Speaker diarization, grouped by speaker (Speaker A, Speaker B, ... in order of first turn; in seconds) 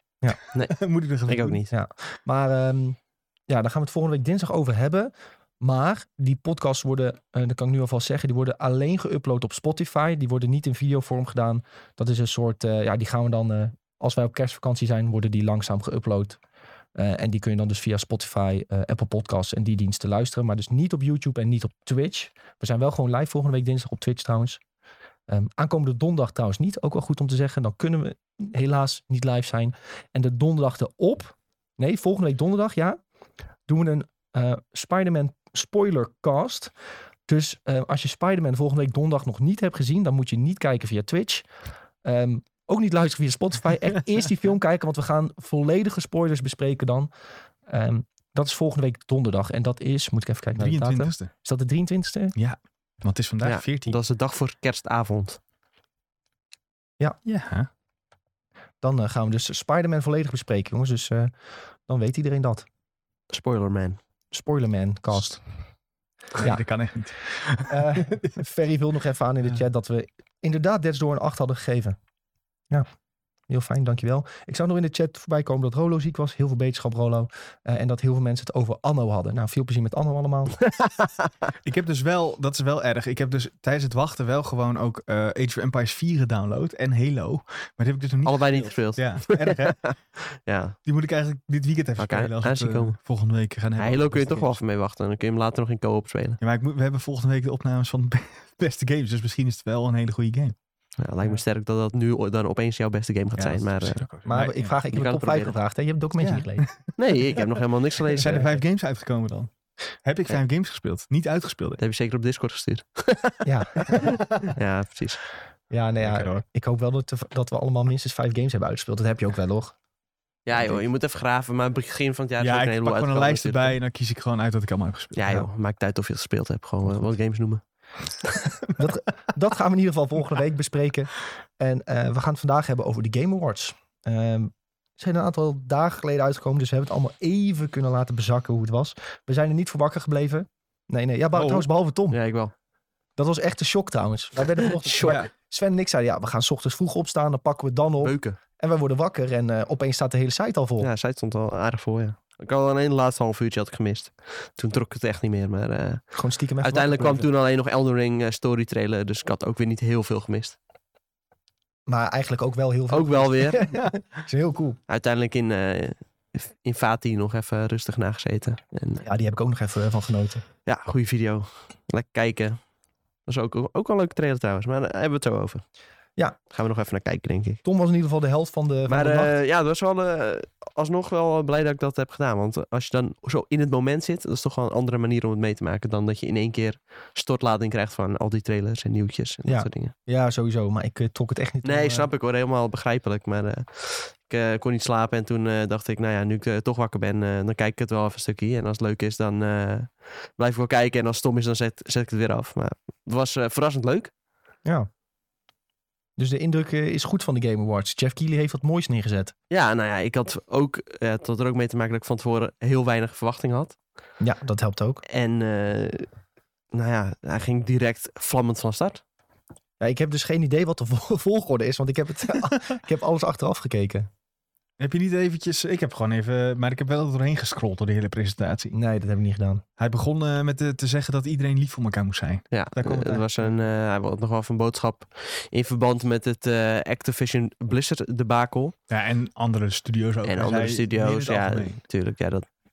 Speaker A: 0.3-1.6, 50.6-51.3, 52.4-54.0, 57.2-57.7, 66.3-68.3, 81.6-90.0, 90.9-94.6, 96.4-100.5, 103.4-104.7, 106.2-107.5, 108.0-109.5, 110.0-111.8, 113.9-114.5, 116.0-116.4, 122.4-125.3, 141.3-141.7, 224.8-228.8, 229.8-233.5, 238.9-241.8
Speaker B: 1.3-1.7, 53.4-55.4, 63.3-64.0, 80.7-81.3, 88.2-90.8, 92.0-93.0, 93.8-96.4, 101.0-104.0, 104.9-105.5, 107.0-108.6, 111.8-115.2, 120.5-123.8, 125.2-127.6, 142.1-142.5, 144.8-145.2, 148.0-148.4, 150.8-156.1, 156.6-160.6, 162.9-163.7, 164.9-169.1, 170.7-172.6, 173.3-175.6, 176.5-177.6, 178.9-189.9, 191.6-204.1, 209.5-213.8, 215.1-216.1, 216.7-219.0, 232.5-238.8, 240.2-242.5
Speaker C: 1.7-16.4, 16.9-24.6, 25.3-33.0, 33.7-36.7, 37.3-41.5, 42.0-47.1, 47.7-52.4, 58.8-61.3, 61.9-62.7, 64.3-65.4, 67.7-72.0, 73.5-80.6, 104.3-106.7, 113.5-114.2, 115.7-119.8, 128.8-142.2, 143.2-150.9, 156.2-157.3, 161.9-164.8, 169.0-170.4, 177.6-179.3, 189.4-192.1, 206.2-209.3, 214.2-215.0, 219.8-224.1, 228.7-229.6